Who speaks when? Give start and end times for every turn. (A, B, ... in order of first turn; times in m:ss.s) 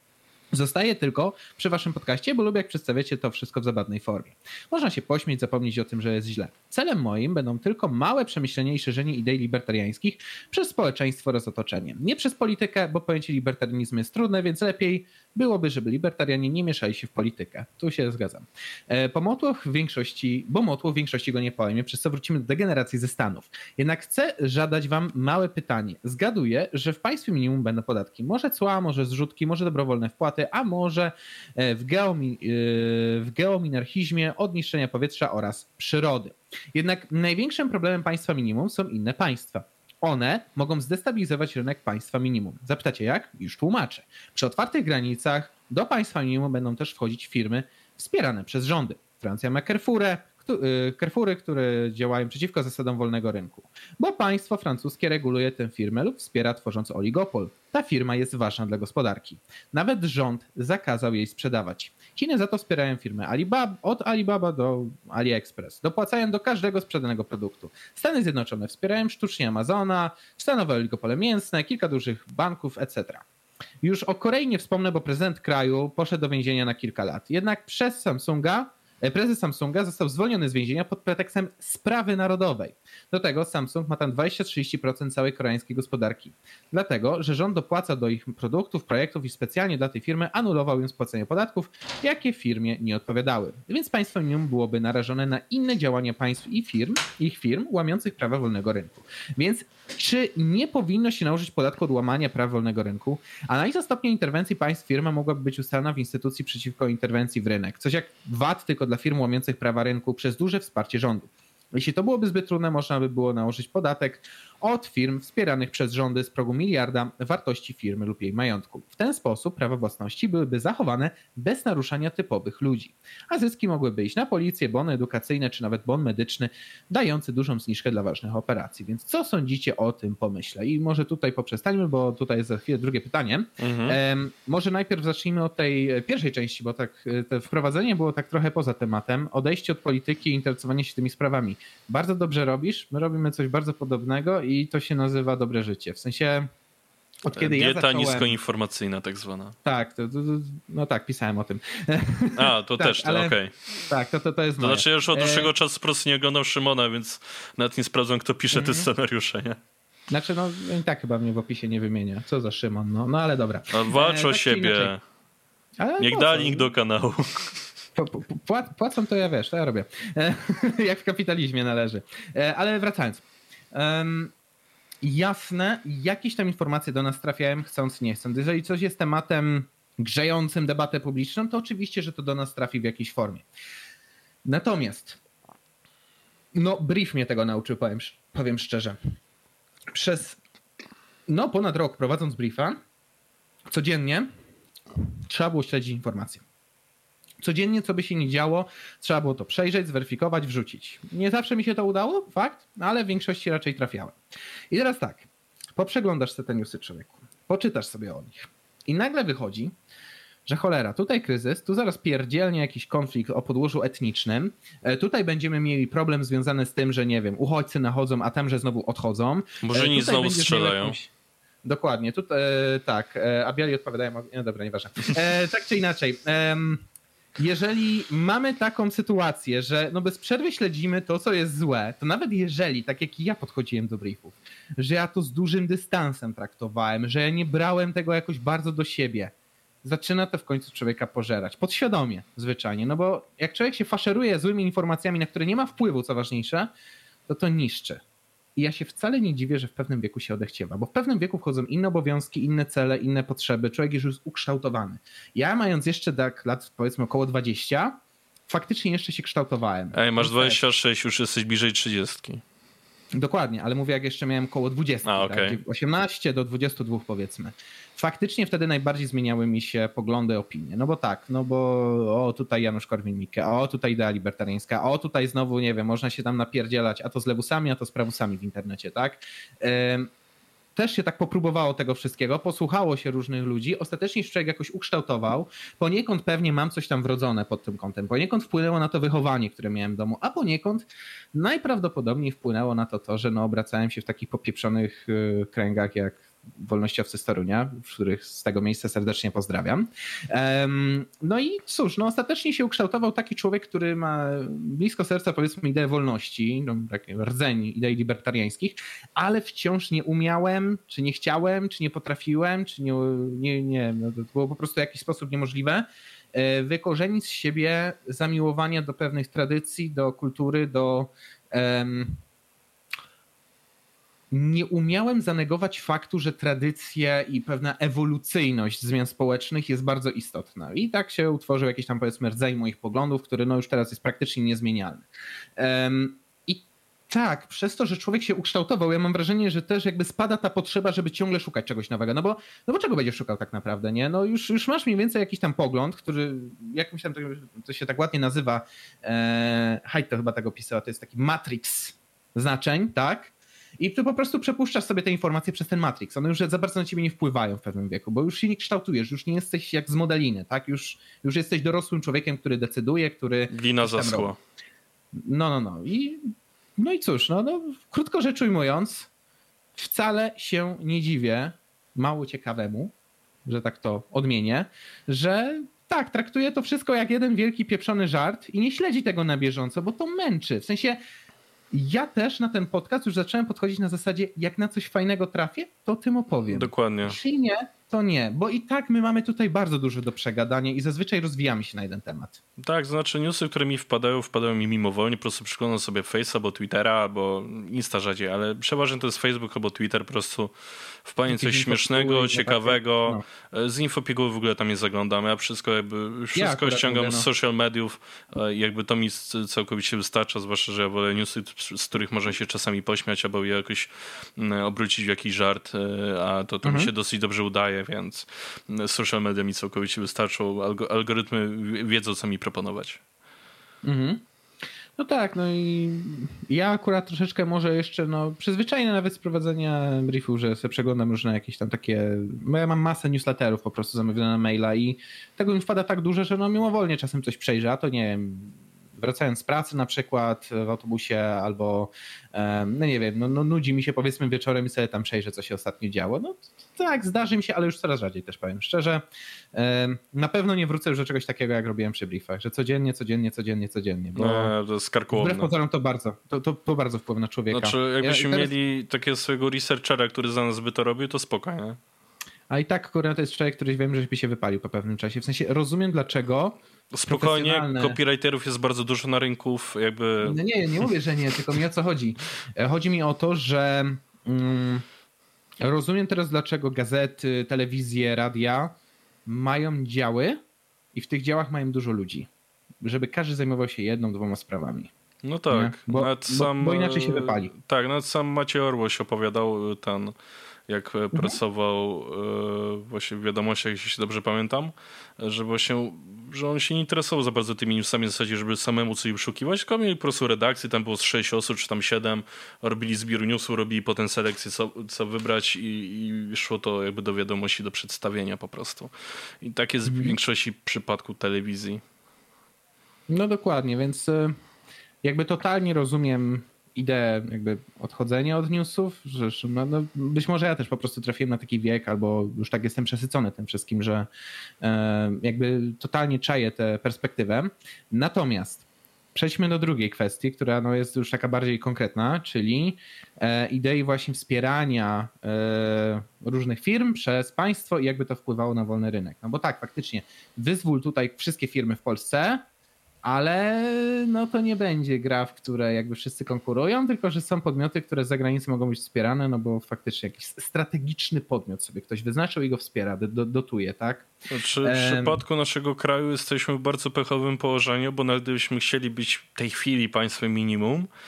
0:00.5-1:13.2 A
1:13.8-2:26.5 A
2:13.6-2:14.0 B
2:27.2-2:28.3 A
2:27.4-2:29.5 B
2:29.6-2:35.5 A
2:32.3-2:33.5 B
2:34.6-2:39.6 B
2:38.5-2:38.9 A
2:40.1-2:44.9 A
2:43.7-2:45.0 B
2:45.8-2:46.7 A
2:46.0-2:47.5 B
2:47.9-2:54.3 A
2:55.0-3:03.4 A
3:04.4-3:05.2 A
3:06.5-3:09.0 A
3:09.9-3:10.4 A
3:11.3-3:12.8 A
3:13.7-3:14.3 A
3:15.3-3:16.4 A
3:17.4-3:24.2 A
3:24.7-3:29.7 A
3:30.5-3:41.1 A
3:39.6-3:41.0 B
3:41.6-3:46.8 A
3:47.4-4:06.7 A
4:07.3-4:08.0 A
4:08.6-4:17.9 A
4:18.5-4:20.6 A
4:19.9-4:22.4 B
4:23.1-4:40.1 A
4:25.0-4:25.6 B
4:40.7-5:22.2 A
5:24.3-5:35.0 A
5:35.6-6:04.3 A
6:03.5-6:04.4 B
6:05.1-6:09.1 A
6:09.8-6:12.9 A
6:13.4-6:21.0 A
6:21.7-6:32.4 A
6:26.5-6:27.2 B
6:32.6-6:40.5 B
6:41.0-7:03.0 B
6:41.3-6:43.2 A
6:46.3-6:47.3 A
6:56.6-6:56.9 A
7:03.8-7:04.2 A
7:05.0-7:34.5 A
7:34.1-7:35.5 B
7:35.1-7:38.5 A
7:37.5-7:41.8 B
7:42.5-7:48.0 A
7:46.9-7:50.9 B
7:50.2-7:54.8 A
7:55.6-8:00.4 A
8:00.9-8:02.3 A
8:02.8-8:04.9 A
8:05.2-8:10.1 B
8:05.5-8:07.5 A
8:10.7-8:31.8 B
8:29.8-8:30.2 A
8:33.1-8:34.4 A
8:35.0-8:44.1 A
8:44.6-9:02.4 A
9:03.0-9:14.1 A
9:14.3-9:20.9 B
9:14.6-9:15.2 A